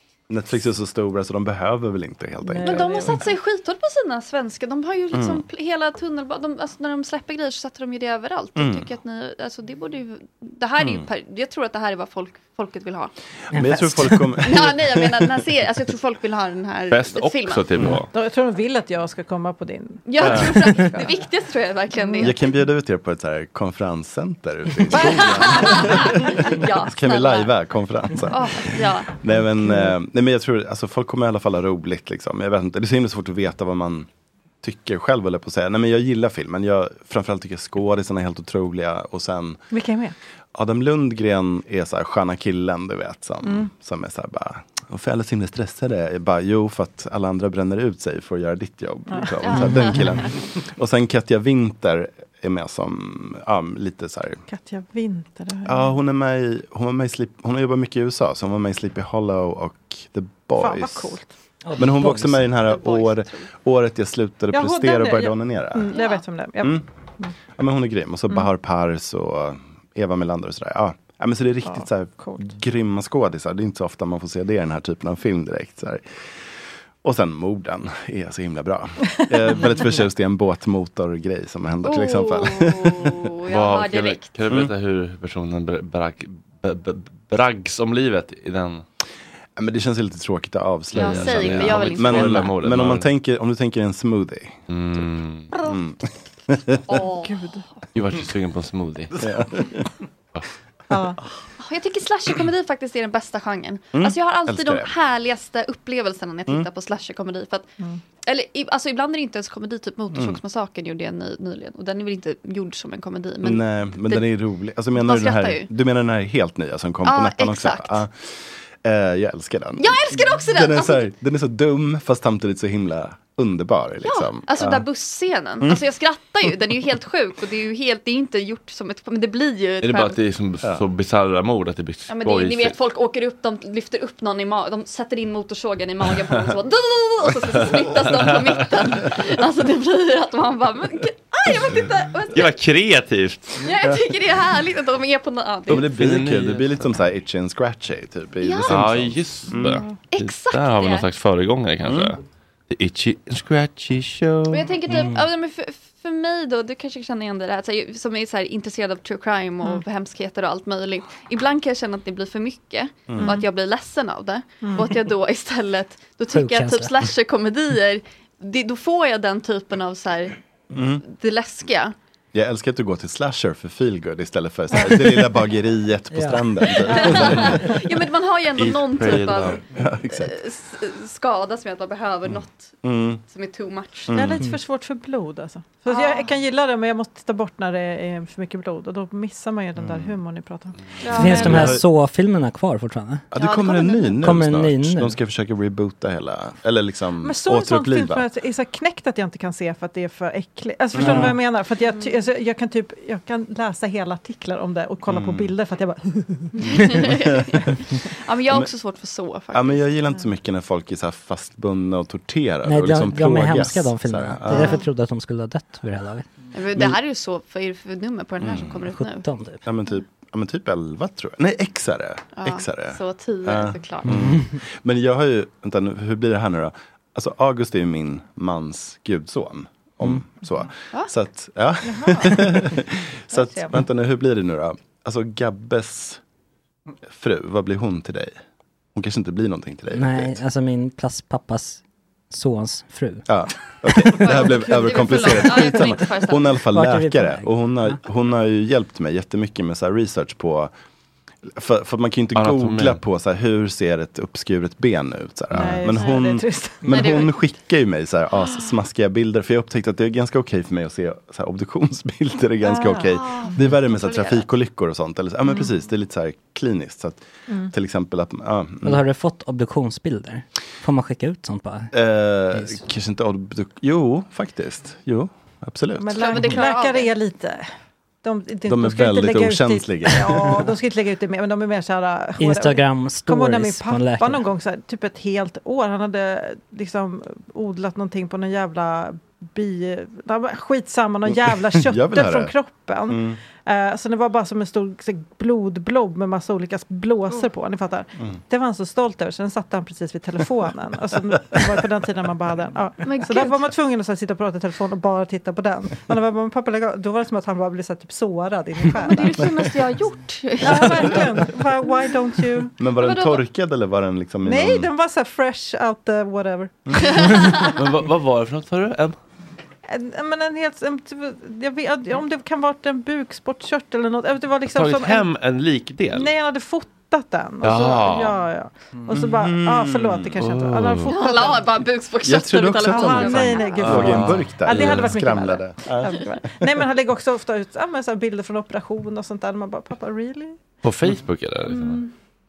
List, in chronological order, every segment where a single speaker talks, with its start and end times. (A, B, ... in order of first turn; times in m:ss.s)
0:00.3-0:03.0 A
0:02.4-0:03.2 B
0:02.6-0:13.1 C
0:05.1-0:05.4 A
0:08.6-0:08.9 A
0:13.5-0:15.3 A
0:13.5-0:14.4 D
0:14.4-0:17.6 C
0:16.9-0:18.1 E
0:18.1-0:21.1 B
0:20.1-0:22.4 C
0:20.2-0:20.6 A
0:22.0-0:22.4 B
0:22.2-0:34.1 A
0:24.9-0:26.5 B
0:24.9-0:27.5 C
0:28.3-0:29.2 C
0:29.3-0:29.9 B
0:34.6-0:39.6 A
0:39.7-0:40.2 B
0:40.5-0:54.4 A
0:43.4-0:43.7 B
0:49.1-0:49.6 B
0:49.4-0:50.2 C
0:54.5-0:56.0 B
0:55.7-1:01.2 A
1:00.6-1:01.3 B
1:01.6-1:02.5 D
1:01.8-1:05.9 A
1:02.6-1:03.5 C
1:04.5-1:07.3 B
1:05.9-1:06.2 C
1:07.5-1:16.0 A
1:11.6-1:12.5 B
1:17.0-1:23.2 A
1:19.2-1:19.6 B
1:21.8-1:24.3 C
1:23.5-1:28.8 E
1:29.6-1:34.7 A
1:30.9-1:32.5 C
1:30.9-1:33.1 E
1:34.7-1:35.6 E
1:35.6-1:36.8 A
1:36.9-1:37.3 C
1:37.0-1:37.6 B
1:37.9-1:39.2 E
1:39.2-1:39.9 A
1:40.9-1:41.2 B
1:41.6-1:47.7 C
1:44.0-1:44.9 A
1:48.2-1:54.3 C
1:50.1-1:50.4 A
1:53.4-2:04.9 A
1:55.0-1:55.7 C
1:57.0-1:58.0 C
1:59.8-2:01.1 C
2:04.0-2:10.2 C
2:09.8-2:12.8 E
2:12.1-2:22.5 C
2:18.1-2:18.4 E
2:22.3-2:23.6 E
2:23.6-2:25.9 C
2:25.7-2:29.8 A
2:25.7-2:26.9 E
2:28.4-2:28.8 C
2:28.7-2:34.7 E
2:30.1-2:31.1 C
2:31.9-2:32.2 A
2:34.5-2:50.4 C
2:34.9-2:35.2 D
2:43.1-2:43.4 A
2:43.2-2:43.5 B
2:44.6-2:44.9 B
2:46.3-2:46.9 D
2:50.7-2:51.0 A
2:51.0-2:52.0 C
2:52.3-2:57.8 A
2:56.1-2:56.5 D
2:56.8-3:04.2 C
2:56.9-2:57.3 B
2:58.6-2:59.6 E
2:59.7-3:00.4 A
3:02.8-3:03.2 A
3:04.1-3:04.4 A
3:04.1-3:11.7 B
3:05.9-3:06.3 C
3:09.8-3:10.2 A
3:11.0-3:11.6 C
3:11.1-3:13.2 D
3:11.3-3:11.8 A
3:13.3-3:18.3 A
3:13.4-3:14.3 C
3:14.2-3:15.2 D
3:17.2-3:27.1 B
3:21.0-3:21.3 A
3:21.0-3:21.4 D
3:21.9-3:22.2 C
3:25.1-3:25.5 A
3:26.6-3:29.9 C
3:27.1-3:27.6 A
3:29.5-3:34.8 A
3:32.6-3:36.3 D
3:34.5-3:34.8 C
3:36.5-3:39.2 C
3:38.4-3:38.7 A
3:39.0-3:39.6 D
3:39.6-3:56.2 A
3:42.4-3:44.1 C
3:44.0-3:44.6 D
3:51.8-3:52.8 B
3:53.3-3:53.8 B
3:57.1-3:58.4 A
3:59.0-4:00.4 A
3:59.9-4:03.3 D
4:03.3-4:10.7 A
4:04.1-4:06.6 C
4:06.7-4:08.0 D
4:11.5-4:29.0 A
4:12.4-4:13.0 E
4:15.5-4:17.1 B
4:16.9-4:17.3 C
4:18.4-4:18.7 C
4:22.6-4:23.6 B
4:23.0-4:24.5 C
4:27.5-4:27.7 B
4:28.8-4:31.9 D
4:31.9-4:36.4 A
4:32.5-4:32.8 D
4:36.0-4:37.7 B
4:36.2-4:37.1 C
4:38.2-5:09.5 B
4:38.7-4:40.7 A
4:42.4-4:44.5 D
4:51.3-4:52.6 A
4:53.1-4:53.4 A
5:01.4-5:01.8 A
5:03.0-5:03.6 C
5:09.0-5:11.5 C
5:10.6-5:12.7 B
5:12.8-5:14.9 A
5:13.0-5:13.4 C
5:14.4-5:17.3 B
5:16.9-5:17.2 A
5:17.0-5:17.7 C
5:17.6-5:19.2 E
5:19.9-5:25.3 B
5:24.7-5:26.3 E
5:26.1-5:31.7 B
5:27.6-5:28.4 E
5:29.2-5:30.4 A
5:30.4-5:31.1 E
5:31.1-5:34.0 C
5:32.2-5:36.8 A
5:32.8-5:40.6 B
5:33.8-5:35.1 E
5:40.8-5:42.0 E
5:41.7-5:42.0 B